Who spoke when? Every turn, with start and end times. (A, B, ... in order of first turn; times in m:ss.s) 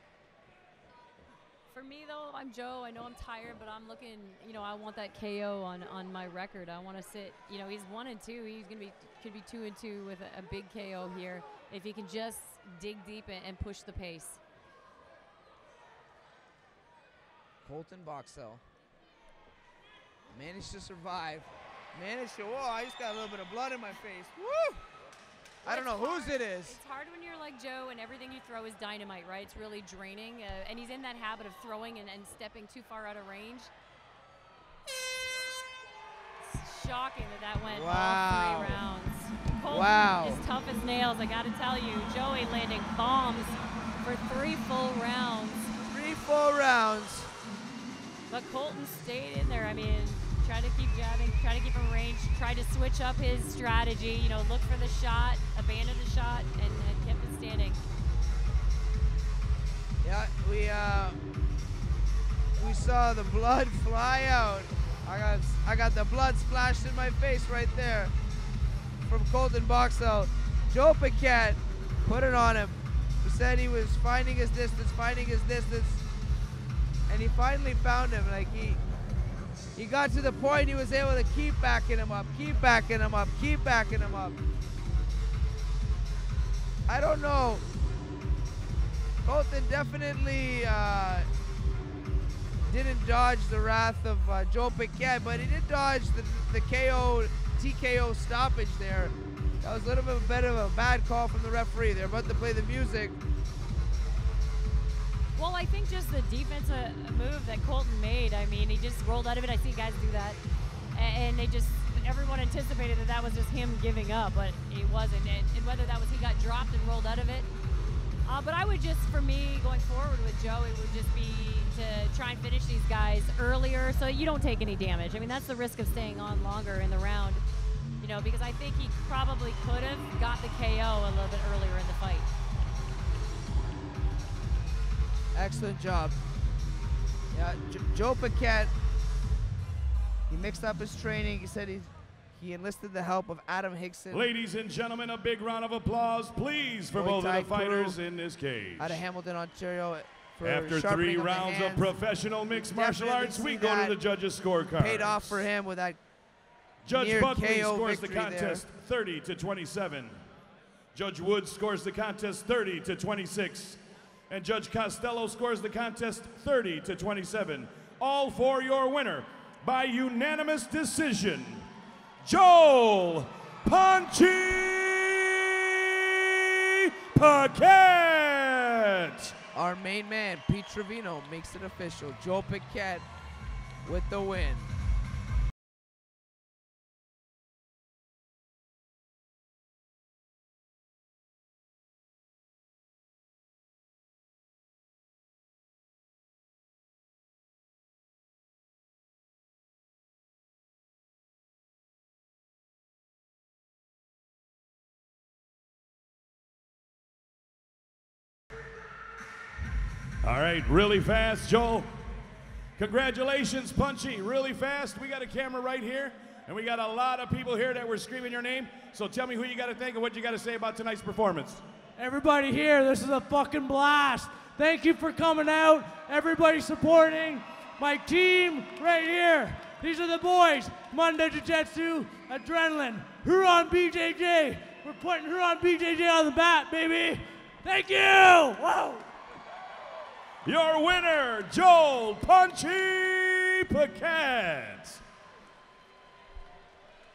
0:01.7-0:14.4 A
0:17.6-0:18.6 B
0:20.3-0:24.9 B
0:25.6-0:26.8 B
0:25.6-0:33.7 A
0:36.4-0:45.7 A
0:37.6-0:38.8 B
0:39.7-0:40.4 B
0:45.8-0:47.3 B
0:48.3-0:57.8 A
1:00.0-1:01.2 B
1:02.6-1:08.1 B
1:09.0-1:16.0 B
1:17.1-1:18.8 B
1:19.7-1:24.4 B
1:26.9-1:27.6 B
1:29.2-1:31.2 B
1:32.6-1:43.2 B
1:45.4-1:50.4 A
1:50.9-1:57.5 A
1:58.2-2:07.4 A
2:08.0-2:12.3 A
2:15.3-2:16.2 B
2:17.3-2:18.7 B
2:20.3-2:24.3 B
2:24.1-2:29.0 C
2:26.9-2:28.0 B
2:28.8-2:31.9 B
2:30.4-2:35.4 C
2:32.6-2:34.0 B
2:34.8-2:36.0 B
2:36.8-2:40.2 C
2:36.9-2:38.6 B
2:40.9-2:43.8 C
2:44.3-2:51.6 C
2:52.2-2:59.4 C
2:59.5-3:03.1 B
3:03.8-3:04.8 B
3:30.2-3:31.9 C
3:32.8-3:41.6 C
3:42.0-3:59.1 D
4:00.4-4:05.0 C